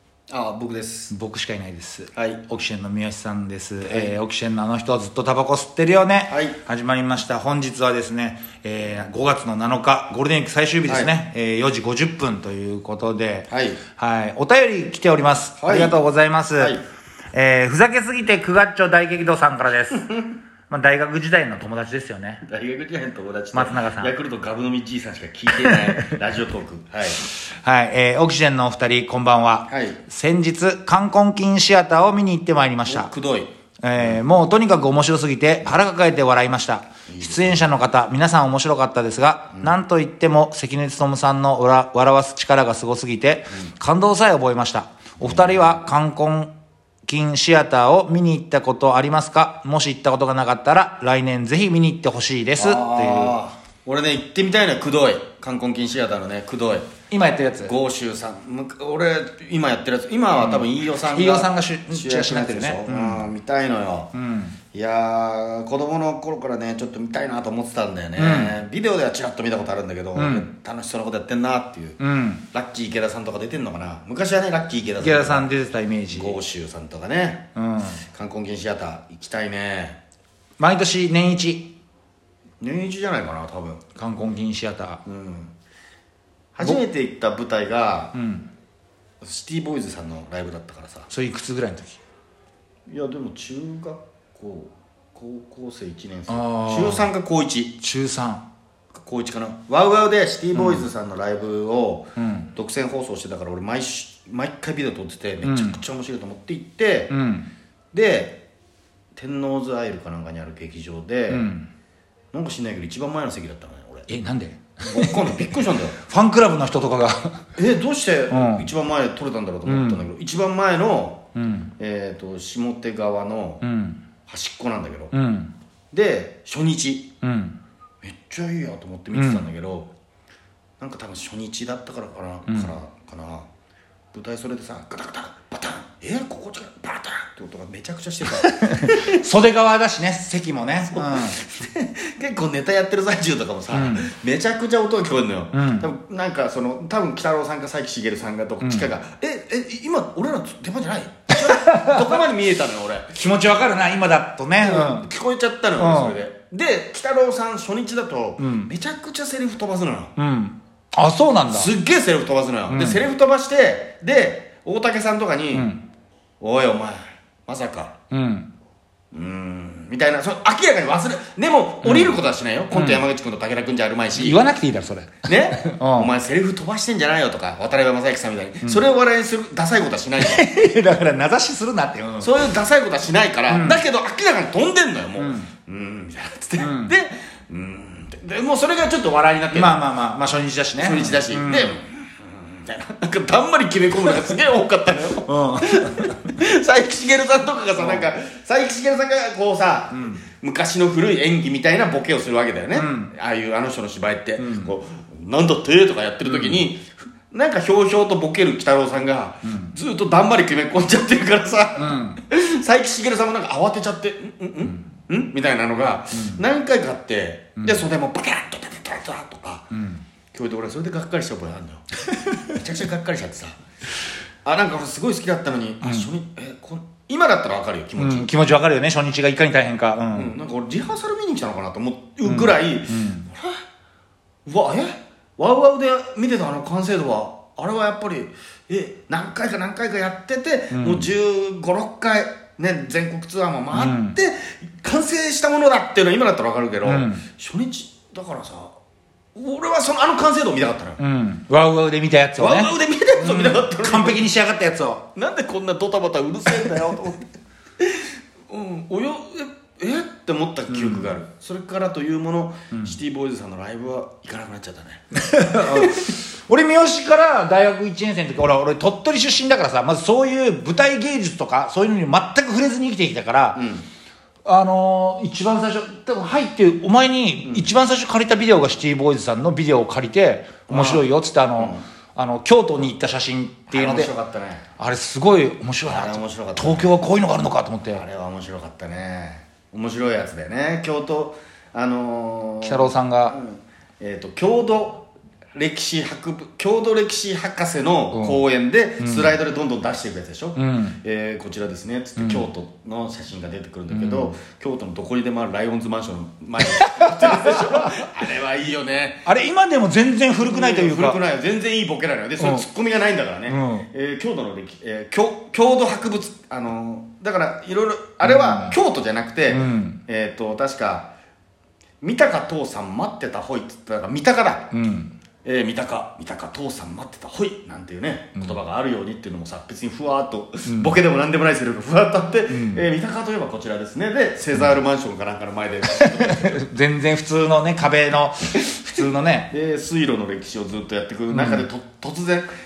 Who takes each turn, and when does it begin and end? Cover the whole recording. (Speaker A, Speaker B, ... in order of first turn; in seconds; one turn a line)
Speaker A: 0.3-1.1
Speaker B: 1.1-16.8
Speaker A: 2.1-2.4
Speaker A: 3.8-4.2
Speaker A: 6.3-6.6
Speaker A: 10.9-11.1
Speaker A: 13.5-13.8
Speaker A: 15.6-16.0
Speaker A: 16.5-16.8
Speaker B: 17.3-20.1
Speaker B: 20.7-22.4
Speaker A: 22.4-27.2
Speaker B: 23.5-24.1
Speaker B: 25.6-26.1
Speaker B: 27.3-33.1
Speaker A: 29.7-30.0
Speaker A: 32.9-34.2
Speaker B: 33.8-46.5
Speaker A: 37.1-37.7
Speaker A: 45.2-45.8
Speaker B: 47.0-53.4
Speaker A: 52.6-56.9
Speaker B: 57.1-57.7
Speaker A: 57.6-64.1
Speaker B: 60.3-63.2
Speaker B: 64.1-64.5
Speaker A: 64.7-72.0
Speaker B: 68.2-68.5
Speaker B: 70.2-70.5
Speaker B: 72.0-72.4
Speaker A: 72.5-75.5
Speaker B: 75.0-76.4
Speaker A: 76.1-77.4
Speaker B: 77.5-78.0
Speaker A: 78.1-80.0
Speaker B: 80.6-81.7
Speaker A: 82.6-83.8
Speaker B: 84.0-85.0
Speaker A: 85.0-85.5
Speaker A: 86.5-88.2
Speaker B: 88.1-88.5
Speaker A: 89.2-91.1
Speaker B: 91.1-92.0
Speaker A: 92.9-97.8
Speaker B: 96.3-97.1
Speaker B: 97.8-98.4
Speaker A: 99.0-107.1
Speaker B: 100.5-100.9
Speaker B: 102.2-102.5
Speaker B: 105.4-105.8
Speaker B: 107.1-107.5
Speaker A: 107.9-108.4
Speaker A: 109.1-111.5
Speaker B: 111.3-111.7
Speaker A: 112.3-114.1
Speaker B: 114.1-117.4
Speaker A: 114.8-116.0
Speaker A: 117.6-121.2
Speaker B: 118.3-118.7
Speaker B: 119.7-120.0
Speaker B: 121.4-121.7
Speaker A: 121.8-123.6
Speaker B: 123.6-124.0
Speaker A: 124.3-125.1
Speaker B: 125.1-125.5
Speaker A: 125.9-127.1
Speaker B: 127.2-127.6
Speaker A: 128.0-129.9
Speaker B: 129.2-129.4
Speaker A: 130.8-133.5
Speaker A: 134.1-139.2
Speaker B: 138.4-141.4
Speaker A: 140.9-153.1
Speaker B: 143.7-144.1
Speaker B: 145.5-145.9
Speaker B: 148.6-148.9
Speaker B: 151.5-152.0
Speaker B: 153.1-155.1
Speaker A: 154.6-160.2
Speaker B: 155.8-156.2
Speaker B: 158.4-158.7
Speaker B: 160.2-161.7
Speaker A: 161.5-165.7
Speaker B: 162.7-163.0
Speaker B: 165.5-165.8
Speaker A: 166.4-167.9
Speaker B: 168.1-168.5
Speaker A: 169.1-174.4
Speaker B: 171.8-172.2
Speaker B: 172.7-173.0
Speaker B: 174.1-176.1
Speaker A: 175.2-180.4
Speaker B: 180.2-182.5
Speaker A: 182.2-189.8
Speaker B: 183.5-183.8
Speaker B: 185.2-185.5
Speaker B: 186.6-186.9
Speaker B: 189.5-191.8
Speaker A: 190.8-219.7
Speaker B: 195.2-196.2
Speaker B: 197.8-198.0
Speaker B: 199.9-200.2
Speaker B: 202.8-203.1
Speaker B: 204.4-204.7
Speaker B: 206.2-206.6
Speaker B: 209.4-209.8
Speaker B: 211.8-212.2
Speaker B: 216.1-216.4
Speaker B: 217.6-217.8
Speaker B: 219.7-220.0
Speaker A: 220.3-221.8
Speaker A: 222.5-223.6
Speaker A: 224.4-228.3
Speaker B: 225.8-226.1
Speaker B: 228.0-230.3
Speaker A: 230.1-233.6
Speaker B: 232.2-233.3
Speaker A: 234.4-248.8
Speaker B: 240.7-241.1
Speaker B: 243.7-244.2
Speaker B: 246.8-247.2
Speaker A: 249.3-251.0
Speaker B: 251.0-255.1
Speaker A: 252.4-254.3
Speaker A: 255.1-257.3
Speaker A: 257.8-266.1
Speaker B: 260.7-261.1
Speaker B: 265.1-273.6
Speaker A: 273.6-273.9
Speaker B: 274.4-284.1
Speaker A: 277.4-277.7
Speaker A: 280.7-281.8
Speaker A: 283.7-284.6
Speaker B: 284.8-288.0
Speaker A: 285.9-286.9
Speaker A: 287.9-309.2
Speaker B: 292.6-293.4
Speaker B: 298.1-298.4
Speaker B: 299.0-299.3
Speaker B: 300.6-301.0
Speaker B: 302.2-302.4
Speaker B: 303.9-304.4
Speaker B: 306.7-308.0
Speaker B: 309.2-311.2
Speaker A: 310.5-321.1
Speaker B: 312.4-312.6
Speaker B: 313.5-313.9
Speaker B: 318.2-318.8
Speaker B: 319.5-320.0
Speaker A: 322.0-324.7
Speaker B: 324.7-325.1
Speaker A: 325.4-336.6
Speaker B: 330.6-330.9
Speaker B: 332.5-332.8
Speaker B: 335.9-339.5
Speaker A: 339.5-342.5
Speaker B: 341.3-341.6